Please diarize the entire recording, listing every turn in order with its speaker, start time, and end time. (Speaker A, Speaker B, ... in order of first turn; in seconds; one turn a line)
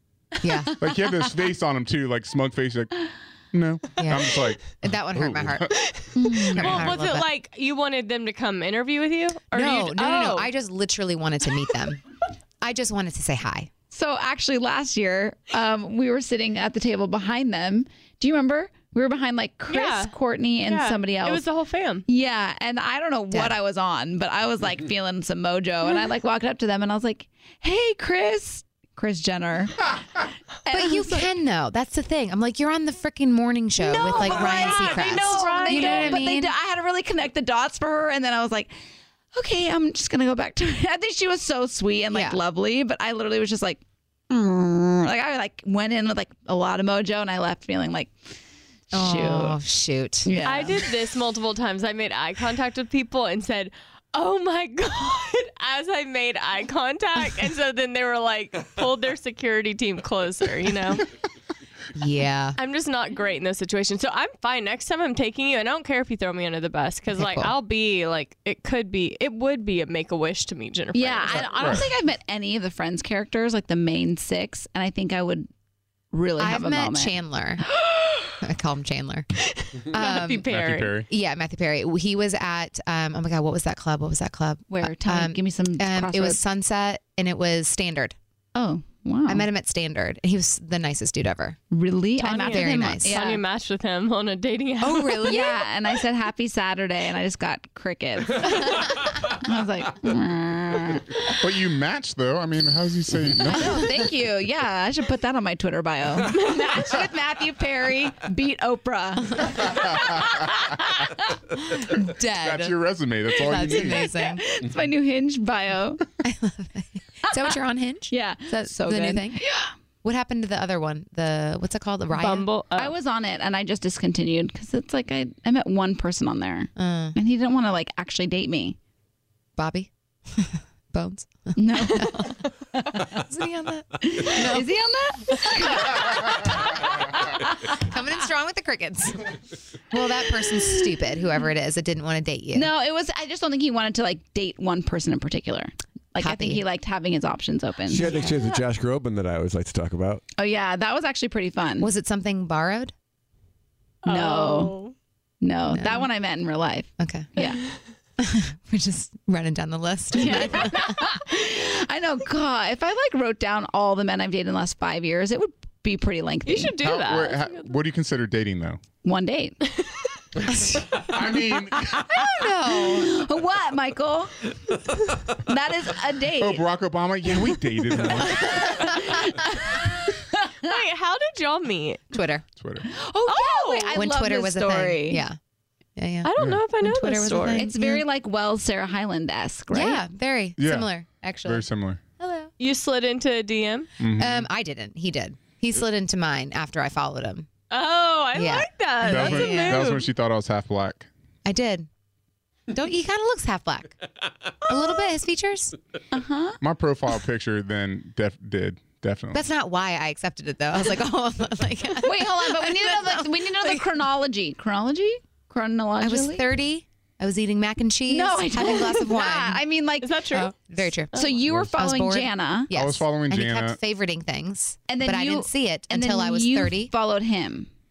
Speaker A: 0.4-0.9
Speaker B: 0.8-3.0
Speaker B: 3.5-6.0
Speaker A: 3.9-5.7
Speaker C: 5.9-10.5
Speaker D: 6.1-6.9
Speaker A: 6.5-7.3
Speaker A: 9.5-12.0
Speaker A: 12.6-13.7
Speaker D: 13.9-21.4
Speaker C: 19.7-20.1
Speaker C: 20.6-22.1
Speaker D: 22.1-29.9
Speaker A: 23.3-23.6
Speaker D: 30.7-31.3
Speaker A: 30.7-36.5
Speaker C: 33.8-36.3
Speaker D: 34.0-38.8
Speaker D: 39.3-48.3
Speaker A: 42.1-42.4
Speaker D: 48.9-49.6
Speaker A: 48.9-50.4
Speaker D: 50.2-50.8
Speaker C: 50.5-61.1
Speaker A: 61.9-62.6
Speaker C: 62.6-71.8
Speaker A: 67.1-67.5
Speaker D: 70.9-75.5
Speaker B: 71.6-71.9
Speaker D: 76.1-77.1
Speaker A: 76.4-77.6
Speaker C: 77.9-78.3
Speaker A: 78.4-79.3
Speaker C: 79.5-81.0
Speaker A: 79.9-80.5
Speaker B: 80.5-81.1
Speaker A: 81.1-88.1
Speaker D: 84.7-86.4
Speaker D: 88.5-89.5
Speaker A: 89.3-91.6
Speaker D: 91.7-93.4
Speaker C: 92.2-95.5
Speaker A: 92.5-93.1
Speaker A: 94.8-95.6
Speaker D: 95.2-101.2
Speaker B: 101.4-103.9
Speaker D: 103.5-111.2
Speaker C: 106.4-106.7
Speaker A: 112.0-112.8
Speaker B: 112.4-114.0
Speaker A: 113.4-114.4
Speaker C: 113.5-114.4
Speaker D: 113.7-116.0
Speaker A: 116.2-119.4
Speaker D: 118.1-119.7
Speaker A: 120.0-122.5
Speaker C: 122.2-122.9
Speaker D: 122.8-128.8
Speaker A: 126.8-127.2
Speaker A: 129.6-132.3
Speaker D: 131.6-133.2
Speaker A: 133.3-134.7
Speaker D: 134.0-137.8
Speaker A: 137.7-139.2
Speaker A: 139.9-142.7
Speaker D: 142.6-148.1
Speaker A: 146.2-146.6
Speaker E: 147.9-150.2
Speaker D: 150.4-151.9
Speaker A: 151.8-152.9
Speaker C: 154.0-154.9
Speaker D: 154.1-154.8
Speaker D: 155.4-157.6
Speaker A: 155.7-156.1
Speaker A: 157.0-157.3
Speaker C: 157.3-157.9
Speaker A: 158.2-161.0
Speaker C: 160.2-160.7
Speaker D: 160.2-166.7
Speaker C: 166.4-167.7
Speaker B: 166.8-168.8
Speaker D: 169.0-169.6
Speaker B: 171.1-172.1
Speaker D: 171.2-174.4
Speaker A: 172.2-173.1
Speaker D: 175.4-176.6
Speaker B: 176.4-179.0
Speaker D: 178.3-180.7
Speaker C: 180.6-182.0
Speaker A: 182.1-182.4
Speaker B: 182.5-182.9
Speaker D: 182.8-185.2
Speaker C: 183.3-184.0
Speaker A: 183.9-185.4
Speaker A: 185.9-188.0
Speaker C: 186.2-187.7
Speaker B: 186.4-186.6
Speaker D: 187.6-190.0
Speaker A: 189.7-191.7
Speaker B: 190.6-192.1
Speaker C: 192.6-193.9
Speaker B: 194.0-194.5
Speaker A: 194.2-197.5
Speaker C: 197.7-200.1
Speaker A: 198.3-199.8
Speaker B: 199.1-201.1
Speaker D: 199.2-199.6
Speaker A: 201.4-201.9
Speaker A: 202.7-203.9
Speaker A: 204.6-205.7
Speaker D: 206.1-206.6
Speaker B: 206.6-209.4
Speaker A: 209.3-213.9
Speaker D: 212.0-216.4
Speaker A: 216.0-219.6
Speaker D: 218.1-220.4
Speaker C: 220.0-220.6
Speaker A: 220.3-226.9
Speaker C: 221.1-221.4
Speaker D: 221.1-222.7
Speaker B: 222.7-223.8
Speaker D: 224.9-227.7